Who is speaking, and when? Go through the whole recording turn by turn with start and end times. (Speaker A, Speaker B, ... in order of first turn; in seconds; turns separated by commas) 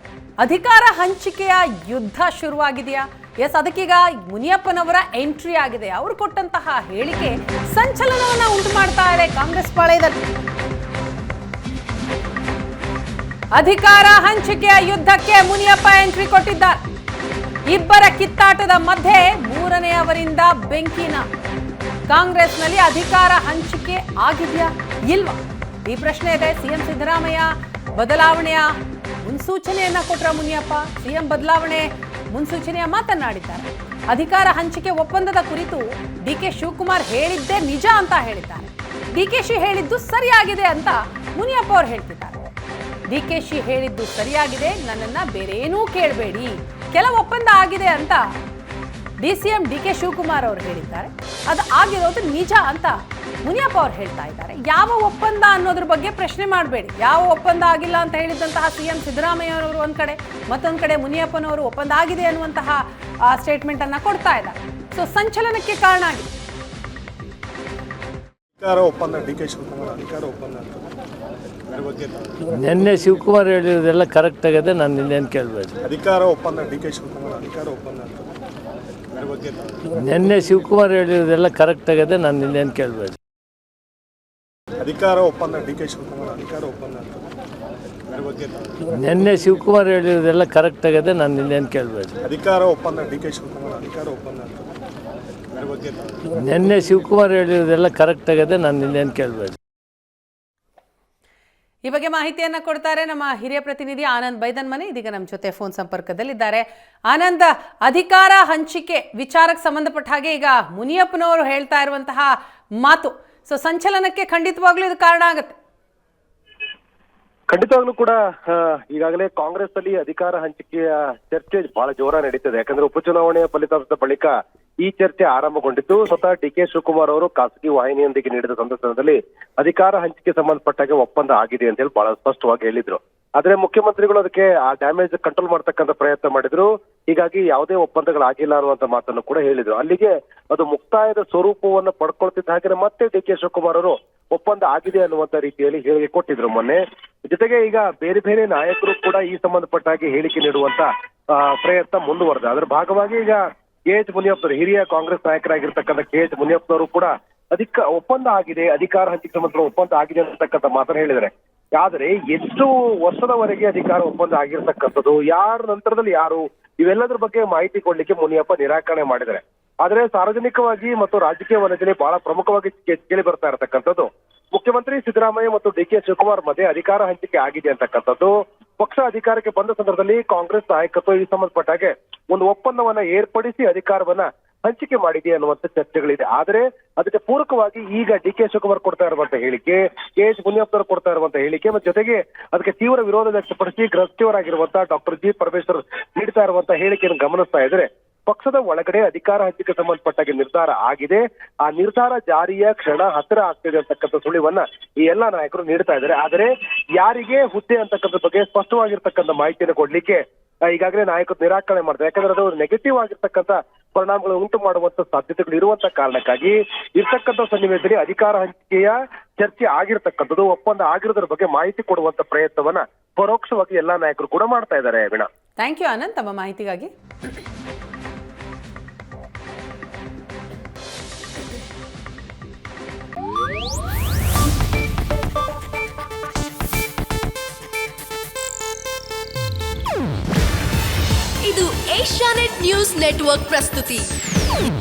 Speaker A: 0.4-10.3, Speaker A: 13.5-16.8, Speaker A: 17.7-21.3, Speaker A: 22.1-28.7, Speaker A: 29.2-42.4, Speaker A: 43.1-48.2, Speaker A: 49.2-66.3, Speaker B: 68.6-70.8, Speaker C: 72.5-75.8, Speaker B: 75.8-78.2, Speaker C: 79.9-83.2, Speaker B: 84.8-87.1, Speaker C: 88.9-92.2, Speaker B: 92.2-94.5, Speaker C: 96.3-99.6, Speaker A: 101.8-115.6, Speaker D: 117.5-225.3, Speaker A: 225.6-226.9, Speaker E: 241.4-244.1